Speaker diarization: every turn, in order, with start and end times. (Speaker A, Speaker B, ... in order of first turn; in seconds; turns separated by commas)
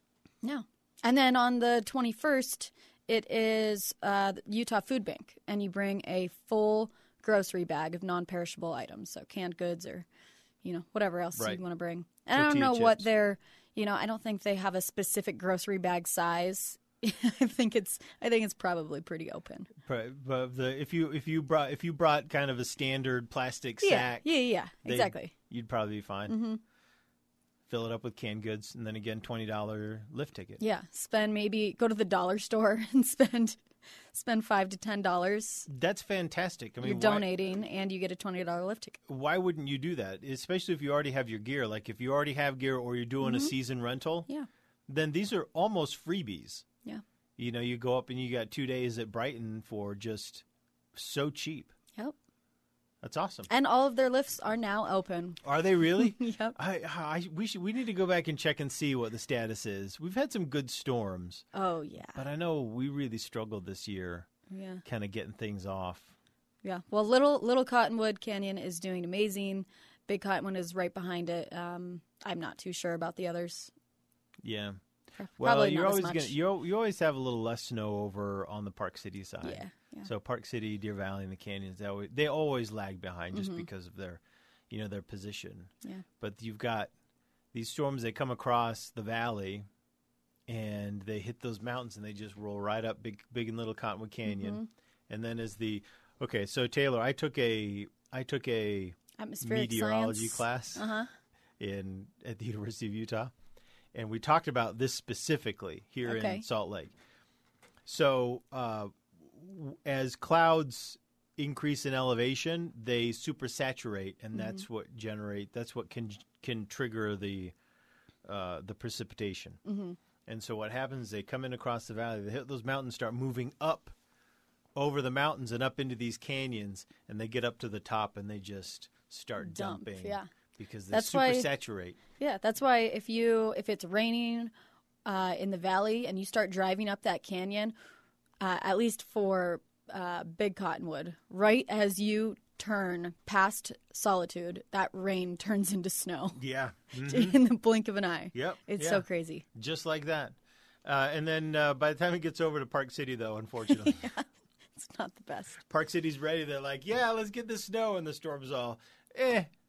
Speaker A: 0.4-10.1, Speaker A: 10.6-19.7, Speaker B: 12.3-13.0, Speaker B: 19.8-24.2, Speaker A: 23.8-25.3, Speaker B: 24.8-26.4, Speaker A: 26.3-26.6, Speaker B: 27.7-30.6, Speaker A: 30.6-33.6, Speaker A: 34.1-35.7, Speaker B: 35.7-37.3, Speaker A: 36.8-39.0, Speaker B: 39.0-44.3, Speaker A: 43.2-43.5, Speaker B: 44.9-46.6, Speaker B: 47.4-50.4, Speaker B: 50.9-51.7, Speaker B: 53.0-53.5, Speaker A: 53.5-55.4, Speaker B: 55.4-61.4, Speaker A: 56.0-56.6, Speaker A: 61.5-62.2, Speaker B: 62.1-64.3, Speaker A: 64.5-64.8, Speaker B: 64.8-66.1, Speaker A: 66.6-73.7, Speaker B: 74.4-74.8, Speaker A: 75.2-76.4, Speaker B: 75.4-86.9, Speaker A: 79.4-80.1, Speaker A: 83.3-83.7, Speaker B: 87.5-89.6, Speaker B: 90.5-100.9, Speaker A: 94.3-94.7, Speaker A: 99.2-101.1, Speaker B: 101.6-103.3, Speaker B: 103.9-106.9, Speaker A: 106.0-106.4, Speaker B: 107.8-117.5, Speaker A: 114.3-114.6, Speaker B: 118.2-119.6, Speaker A: 119.7-120.0, Speaker B: 120.3-123.9, Speaker B: 124.8-132.0, Speaker A: 129.4-130.3, Speaker A: 130.9-131.5, Speaker A: 132.2-134.5, Speaker A: 135.0-137.7, Speaker A: 138.4-146.4, Speaker B: 146.3-147.4, Speaker A: 147.0-149.4, Speaker B: 148.3-154.1, Speaker A: 153.7-155.6, Speaker B: 155.6-159.5